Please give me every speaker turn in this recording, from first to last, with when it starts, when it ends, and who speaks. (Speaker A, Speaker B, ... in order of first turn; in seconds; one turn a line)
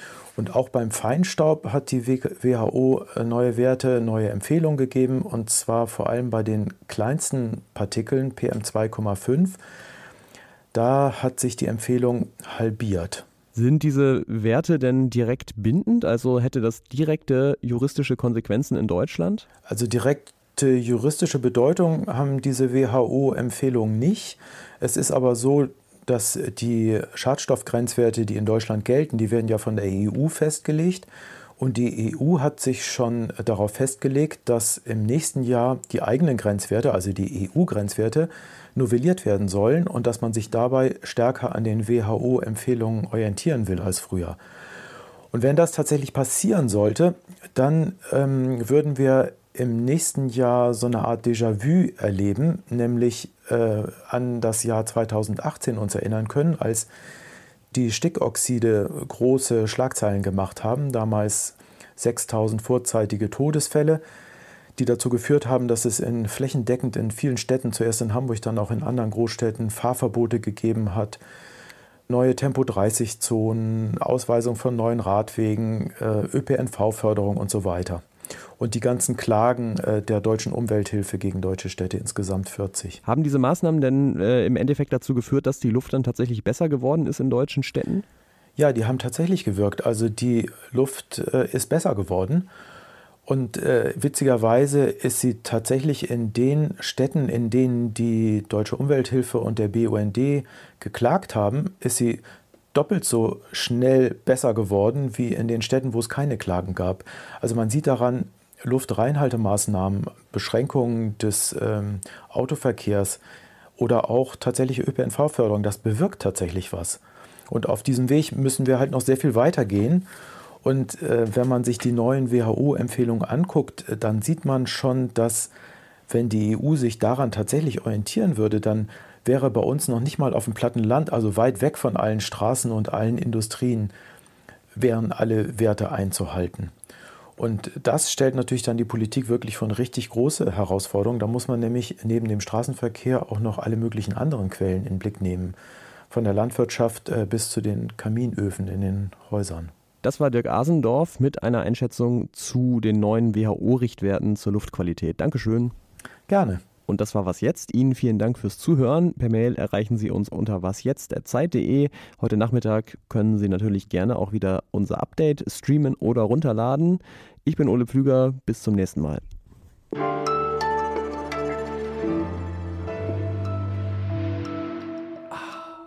Speaker A: 0.4-9.6
Speaker A: 10.7-13.2
Speaker B: 13.5-19.5
Speaker A: 19.7-44.4
Speaker A: 45.3-56.9
Speaker A: 57.7-64.0
Speaker A: 64.8-71.2
Speaker A: 72.1-78.0
Speaker A: 78.6-83.0
Speaker B: 83.0-88.0
Speaker A: 88.6-92.5
Speaker A: 93.3-102.2
Speaker A: 102.7-113.2
Speaker A: 113.8-120.1
Speaker A: 120.6-125.5
Speaker A: 126.1-133.9
Speaker A: 134.8-136.7
Speaker A: 137.4-145.6
Speaker A: 146.1-149.7
Speaker B: 150.0-155.7
Speaker A: 156.3-156.6
Speaker B: 156.9-169.2
Speaker B: 175.3-175.6